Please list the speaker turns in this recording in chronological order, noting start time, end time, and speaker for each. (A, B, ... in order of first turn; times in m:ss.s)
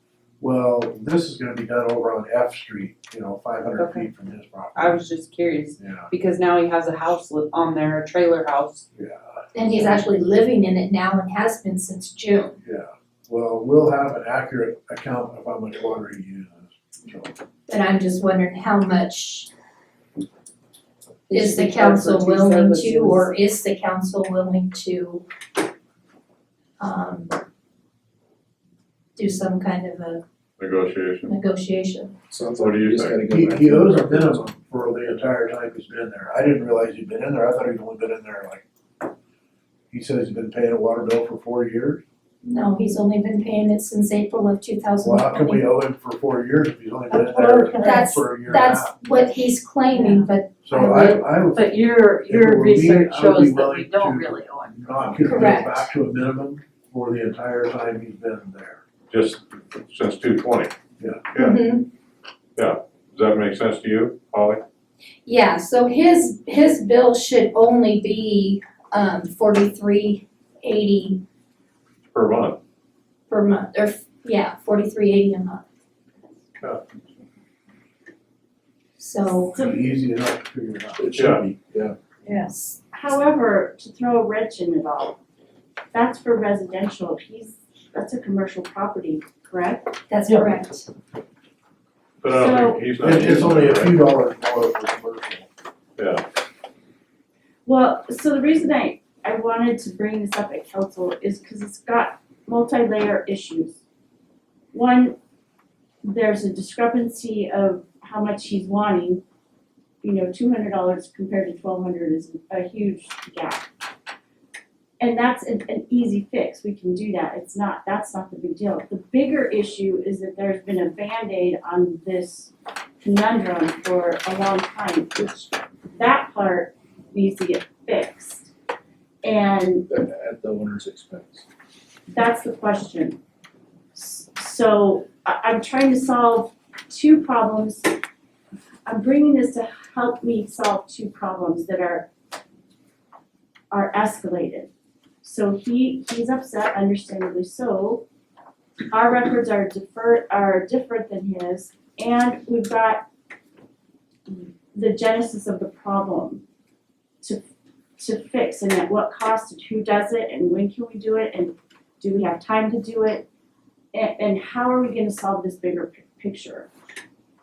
0:00.4-0:05.0 A
0:03.8-0:04.1 B
0:04.7-0:08.8 B
0:05.8-0:06.1 A
0:08.9-0:09.9 A
0:09.5-0:12.5 C
0:12.6-0:17.3 A
0:17.7-0:19.5 C
0:21.3-0:25.2 C
0:26.8-0:27.3 C
0:29.2-0:30.2 C
0:30.6-0:31.3 D
0:31.2-0:32.2 C
0:32.3-0:34.4 E
0:32.6-0:33.2 D
0:33.3-0:38.6 A
0:39.9-0:42.0 A
0:42.4-0:45.6 C
0:45.0-0:49.0 A
0:47.7-0:51.2 C
0:50.6-0:51.7 A
0:51.5-0:54.7 F
0:52.2-0:58.8 A
0:55.2-0:55.9 C
0:59.1-1:00.7 D
1:01.0-1:01.3 A
1:01.3-1:01.6 D
1:01.4-1:01.9 C
1:02.6-1:04.6 D
1:05.2-1:11.2 C
1:12.1-1:12.6 D
1:13.3-1:15.6 C
1:19.0-1:19.6 C
1:19.3-1:19.9 G
1:19.5-1:21.2 A
1:21.0-1:21.9 E
1:21.1-1:21.4 D
1:22.9-1:25.2 G
1:25.9-1:29.9 G
1:30.1-1:30.9 C
1:32.2-1:34.0 D
1:32.3-1:32.8 G
1:33.0-1:35.5 A
1:36.0-1:36.2 D
1:37.6-1:43.8 G
1:44.7-1:45.2 G
1:46.0-1:49.2 G
1:50.0-1:53.6 G
1:55.0-2:05.1 G
2:05.2-2:05.5 E
2:05.9-2:08.5 G
2:09.2-2:09.8 G
2:09.9-2:11.4 E
2:12.1-2:13.2 G
2:13.9-2:17.9 G
2:18.8-2:22.1 G
2:23.7-2:24.7 G
2:25.2-2:28.0 G
2:28.9-2:33.0 G
2:34.3-2:36.4 G
2:38.0-2:43.2 G
2:43.9-2:46.7 G